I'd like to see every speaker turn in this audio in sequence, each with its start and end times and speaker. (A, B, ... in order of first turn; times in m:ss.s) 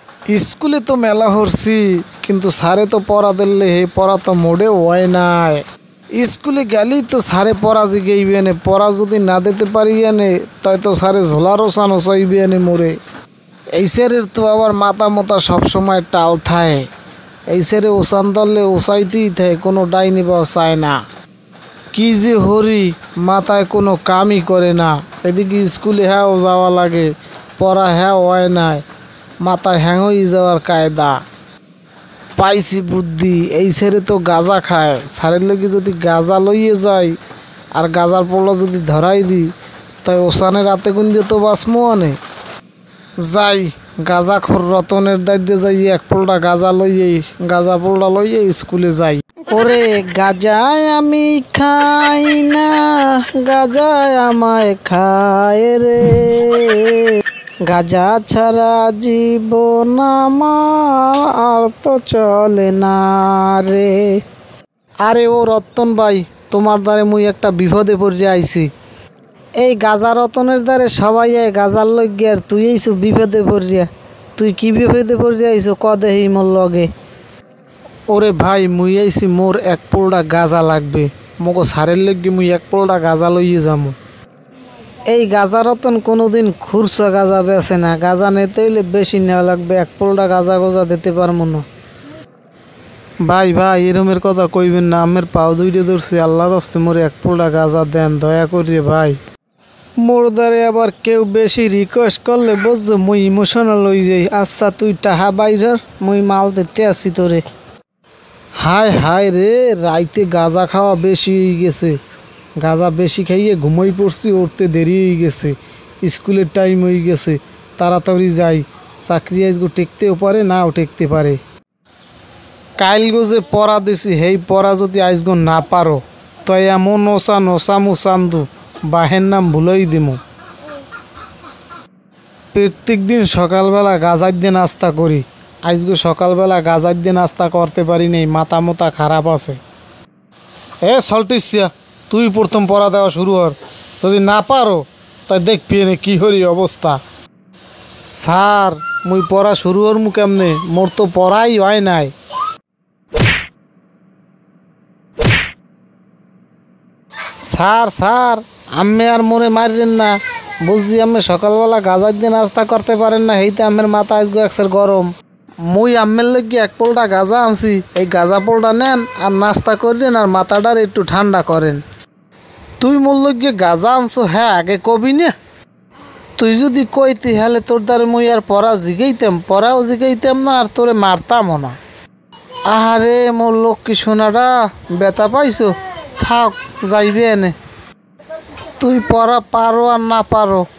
0:00.3-0:13.0 A
0:13.7-0:16.8 A
0:17.5-0:21.0 A
0:21.9-0:28.8 A
0:29.4-0:31.2 A
0:32.4-0:37.2 A
0:37.7-0:39.5 A
0:40.0-0:42.2 A
0:43.2-1:04.2 A
1:05.0-1:08.7 A
1:09.6-1:16.9 A
1:18.1-1:23.9 A
1:25.1-1:31.6 A
1:33.2-1:39.2 A
1:40.0-1:47.4 A
1:48.6-1:52.0 A
1:52.6-2:01.4 A
2:02.8-2:10.2 A
2:12.5-2:19.6 A
2:20.8-2:27.0 A
2:28.1-2:32.1 A
2:37.4-2:45.1 A
2:45.7-2:51.8 A
2:52.8-2:55.3 A
2:56.4-3:01.8 A
3:02.7-3:07.5 A
3:08.8-3:10.6 A